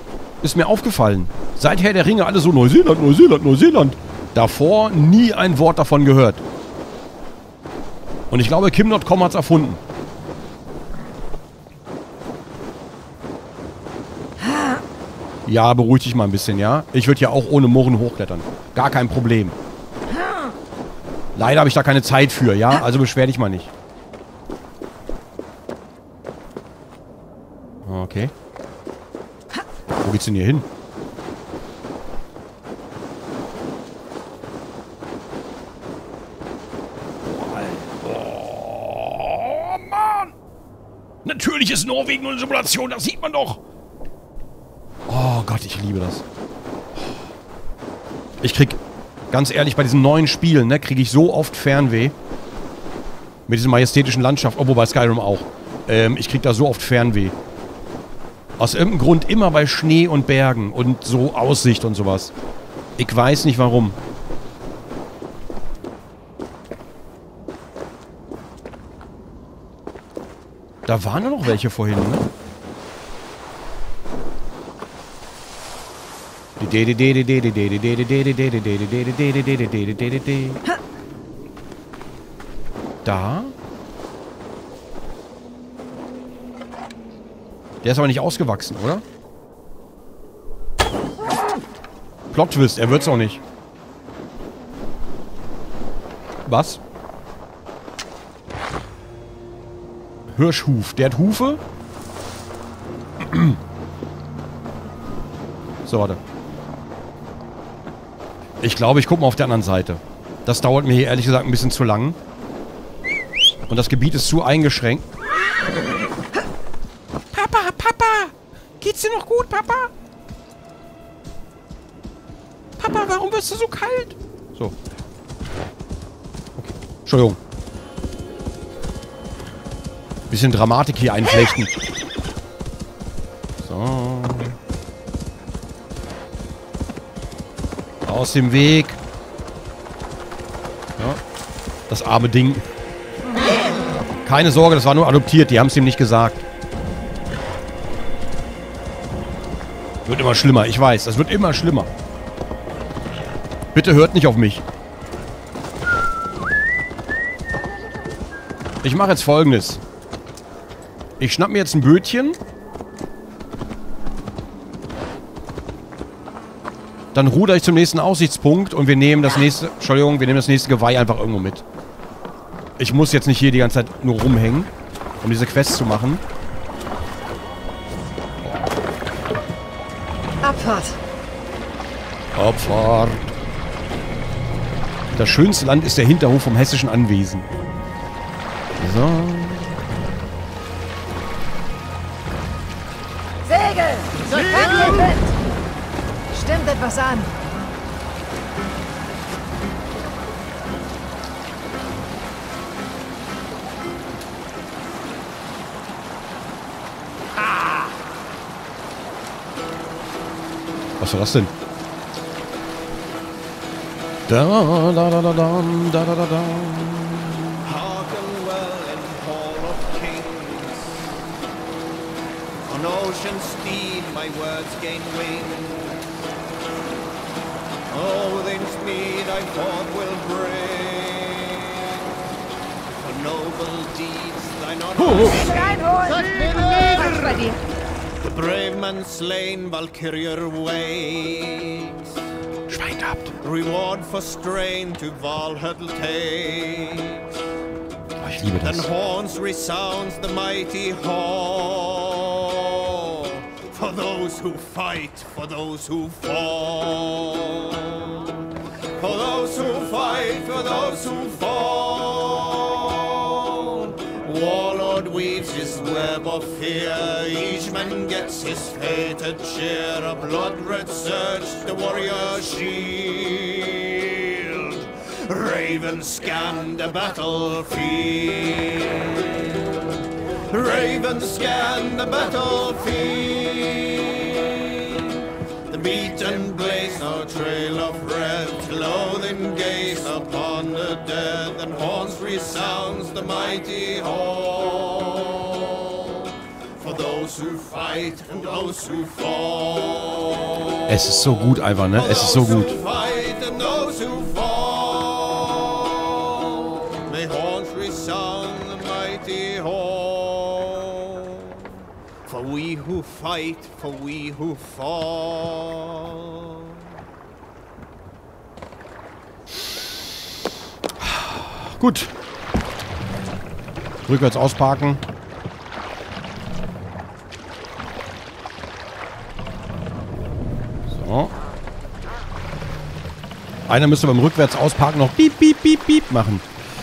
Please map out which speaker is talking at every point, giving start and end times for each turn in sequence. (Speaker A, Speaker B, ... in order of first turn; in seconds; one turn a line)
Speaker A: 0.4-6.4
Speaker A: 8.3-9.8
Speaker A: 15.5-19.6
Speaker A: 21.4-23.7
Speaker A: 27.9-28.3
Speaker A: 30.0-30.7
Speaker A: 37.2-40.3
Speaker A: 41.2-43.6
Speaker A: 45.1-46.2
Speaker A: 48.4-48.8
Speaker A: 49.3-52.1
Speaker A: 53.5-57.4
Speaker A: 58.6-62.3
Speaker A: 63.0-64.0
Speaker A: 70.9-72.2
Speaker A: 76.6-80.6
Speaker A: 83.0-83.5
Speaker A: 87.8-89.0
Speaker A: 92.3-93.4
Speaker A: 96.5-96.8
Speaker A: 100.3-101.6
Speaker A: 103.2-103.6
Speaker A: 105.9-106.2
Speaker A: 108.6-112.2
Speaker A: 113.7-115.1
Speaker A: 117.3-119.9
Speaker A: 122.8-124.8
Speaker A: 126.6-127.4
Speaker A: 130.3-131.7
Speaker A: 133.6-134.6
Speaker A: 138.1-139.0
Speaker A: 141.9-142.7
Speaker A: 144.2-146.4
Speaker A: 150.1-151.9
Speaker A: 153.7-154.6
Speaker A: 158.8-159.8
Speaker A: 161.2-162.4
Speaker A: 167.1-171.6
Speaker A: 172.8-174.7
Speaker A: 175.2-176.2
Speaker A: 178.4-178.7
Speaker B: 180.4-181.0
Speaker A: 182.4-183.3
Speaker A: 185.1-187.5
Speaker A: 188.8-189.8
Speaker B: 193.4-195.3
Speaker B: 196.3-197.3
Speaker A: 211.0-211.5
Speaker A: 214.3-217.6
Speaker C: 217.7-221.1
Speaker C: 222.6-226.0
Speaker C: 227.9-232.0
Speaker C: 233.0-237.6
Speaker B: 235.6-237.6
Speaker C: 238.2-242.1
Speaker A: 242.7-243.3
Speaker C: 243.4-247.2
Speaker A: 248.2-248.9
Speaker C: 248.6-258.4
Speaker C: 259.0-279.5
Speaker C: 280.5-301.0
Speaker A: 300.9-302.8
Speaker C: 301.9-311.7
Speaker C: 312.3-316.8
Speaker A: 321.0-322.1
Speaker A: 324.1-325.0
Speaker A: 330.9-331.3
Speaker A: 333.7-336.4